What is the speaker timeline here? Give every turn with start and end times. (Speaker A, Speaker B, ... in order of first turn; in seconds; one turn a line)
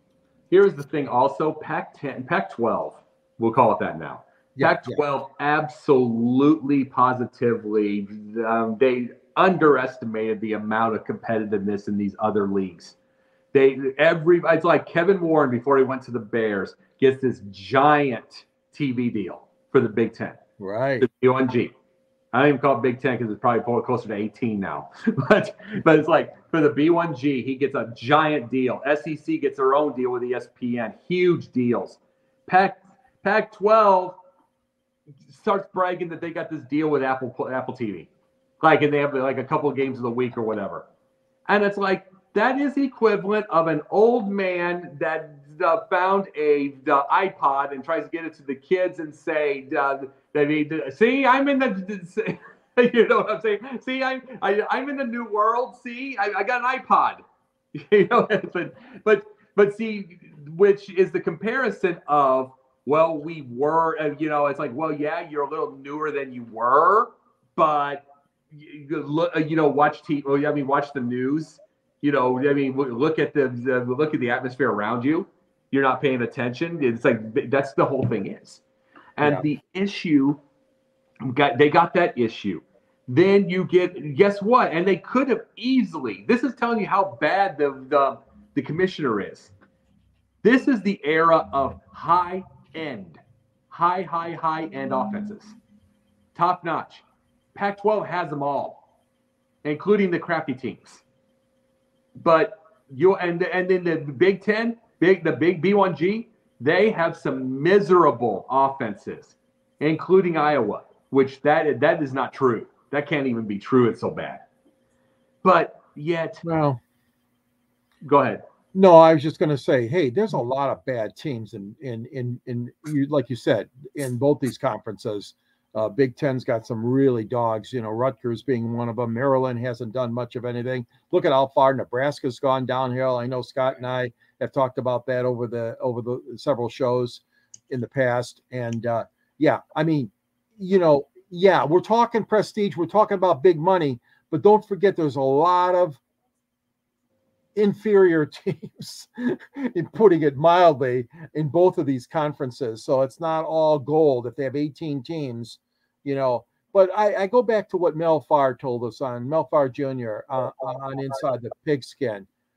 Speaker A: 0.5-12.9
Speaker B: 4.6-5.0
Speaker A: 13.5-20.4
Speaker B: 20.6-21.1
Speaker A: 21.0-21.7
Speaker A: 22.3-34.2
Speaker A: 35.3-38.1
Speaker A: 38.6-40.9
Speaker A: 41.5-57.2
Speaker A: 57.7-78.6
Speaker A: 79.2-80.4
Speaker A: 81.2-89.5
Speaker A: 90.4-95.6
Speaker A: 96.3-98.8
Speaker A: 99.6-101.0
Speaker A: 102.2-114.4
Speaker A: 115.4-116.4
Speaker B: 116.4-116.8
Speaker A: 118.0-118.4
Speaker B: 118.7-146.0
Speaker B: 147.6-162.3